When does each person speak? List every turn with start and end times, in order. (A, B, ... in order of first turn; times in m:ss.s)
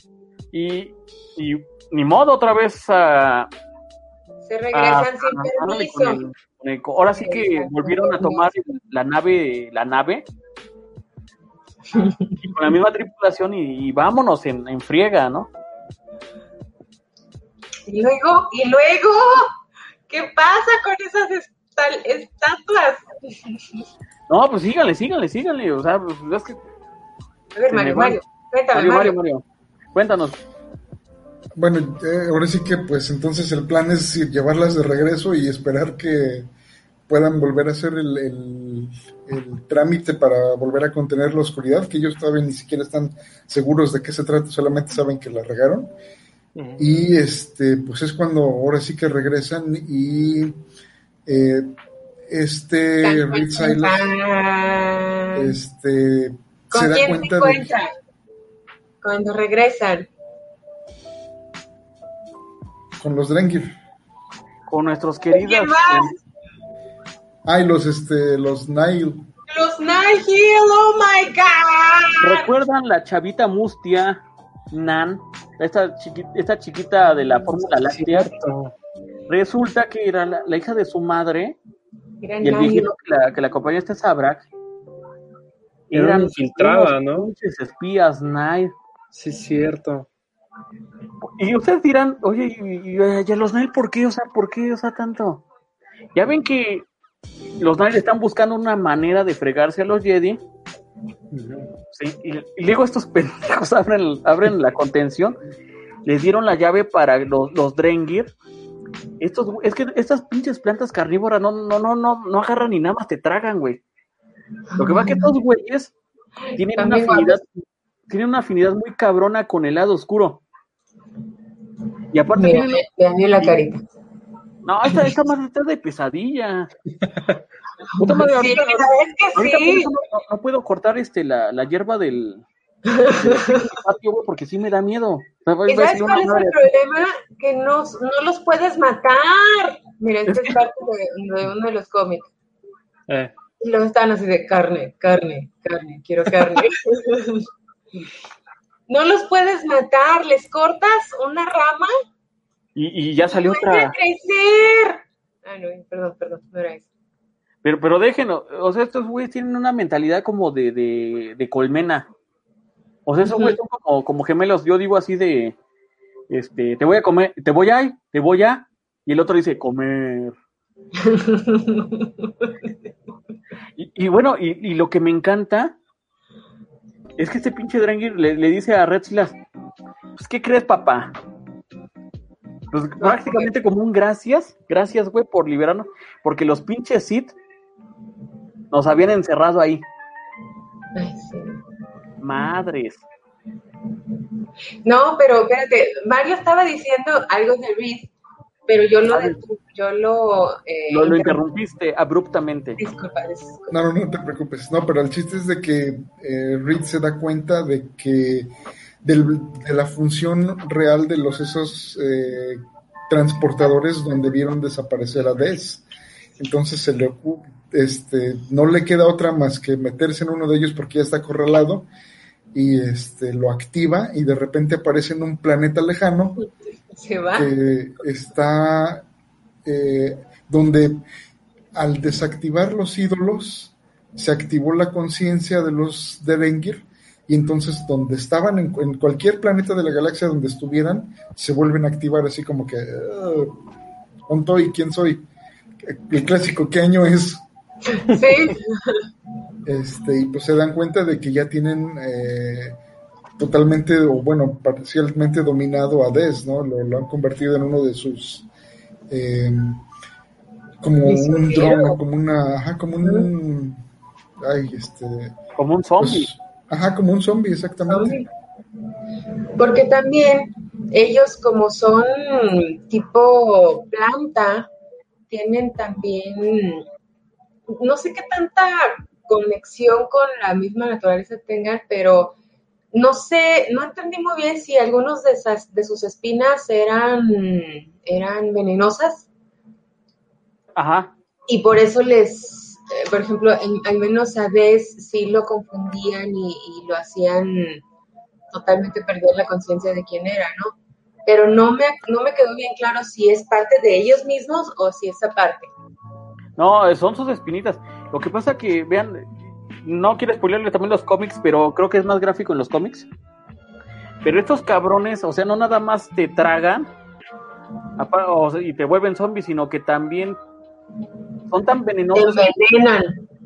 0:00.5-0:03.5 A
0:04.4-0:06.2 B
0:04.7-0:10.3 A
0:07.1-0:08.5 B
0:11.9-0:12.5 B
0:12.4-0:15.5 A
0:17.9-0:19.5 B
0:20.1-0:23.3 B
0:24.3-0:26.6 A
0:27.6-0:29.2 B
0:27.7-0:28.2 A
0:28.7-0:30.4 A
0:31.6-0:36.5 C
0:37.1-0:45.9 C
0:46.6-0:46.8 D
0:46.8-0:50.6 C
0:51.3-0:51.7 C
0:52.3-0:54.1 C
0:53.0-0:55.5 B
0:55.4-0:57.7 C
0:56.7-0:57.9 B
0:59.0-1:00.1 B
1:03.0-1:03.8 C
1:04.7-1:06.2 A
1:05.3-1:06.2 B
1:07.5-1:09.3 C
1:09.5-1:12.5 B
1:12.2-1:18.3 A
1:17.8-1:18.7 D
1:19.3-1:21.6 A
1:22.2-1:22.9 B
1:22.4-1:24.5 A
1:25.9-1:28.7 A
1:25.9-1:27.3 D
1:29.1-1:30.1 D
1:31.4-1:35.4 A
1:36.2-1:36.9 A
1:37.6-1:40.4 A
1:41.3-1:41.7 D
1:41.9-1:45.4 A
1:46.0-1:48.3 A
1:49.2-1:53.8 A
1:54.7-1:55.3 B
1:54.8-1:55.9 A
1:56.5-1:57.4 B
1:56.6-2:00.4 A
2:02.1-2:02.8 A
2:02.3-2:03.8 B
2:04.6-2:06.7 A
2:08.0-2:09.9 B
2:08.0-2:12.4 A
2:12.9-2:13.7 B
2:13.2-2:16.6 A
2:15.7-2:22.3 B
2:20.3-2:20.6 A
2:23.6-2:27.5 B
2:28.9-2:31.9 B
2:32.8-2:34.0 A
2:33.3-2:36.9 B
2:37.6-2:42.1 A
2:43.1-2:45.6 A
2:43.2-2:43.6 B
2:46.3-2:50.3 A
2:51.0-2:52.1 B
2:53.8-2:55.8 A
2:57.2-2:59.4 A
3:00.2-3:01.2 A
3:02.7-3:07.3 A
3:03.0-3:03.5 B
3:08.7-3:09.8 A
3:11.0-3:11.6 B
3:12.2-3:13.0 A
3:14.8-3:18.1 B
3:18.7-3:21.4 B
3:19.1-3:19.4 A
3:20.9-3:22.8 A
3:22.8-3:23.8 B
3:23.7-3:28.5 C
3:29.0-3:35.8 C
3:36.4-3:41.9 C
3:42.5-3:46.4 C
3:47.0-3:47.6 B
3:47.3-3:49.1 C
3:49.6-3:51.0 C
3:51.8-4:03.5 C
4:04.3-4:05.2 C
4:05.8-4:07.4 C
4:07.9-4:09.0 B
4:09.7-4:12.8 C
4:13.4-4:18.5 C
4:19.1-4:19.8 C
4:20.8-4:23.8 C
4:21.0-4:22.0 B
4:23.0-4:23.3 B
4:24.4-4:25.4 C
4:25.6-4:26.3 A
4:26.0-4:28.2 C
4:27.9-4:28.2 B
4:29.6-4:34.7 B
4:35.3-4:36.8 B
4:37.7-4:42.4 B
4:42.9-4:49.3 B
4:50.8-4:51.1 A
4:51.5-4:57.8 B
4:58.5-5:00.8 B
5:01.3-5:05.7 B
5:06.6-5:09.3 A
5:09.8-5:13.1 A
5:14.2-5:16.9 A
5:18.0-5:20.4 A
5:21.5-5:22.5 A
5:22.2-5:23.2 B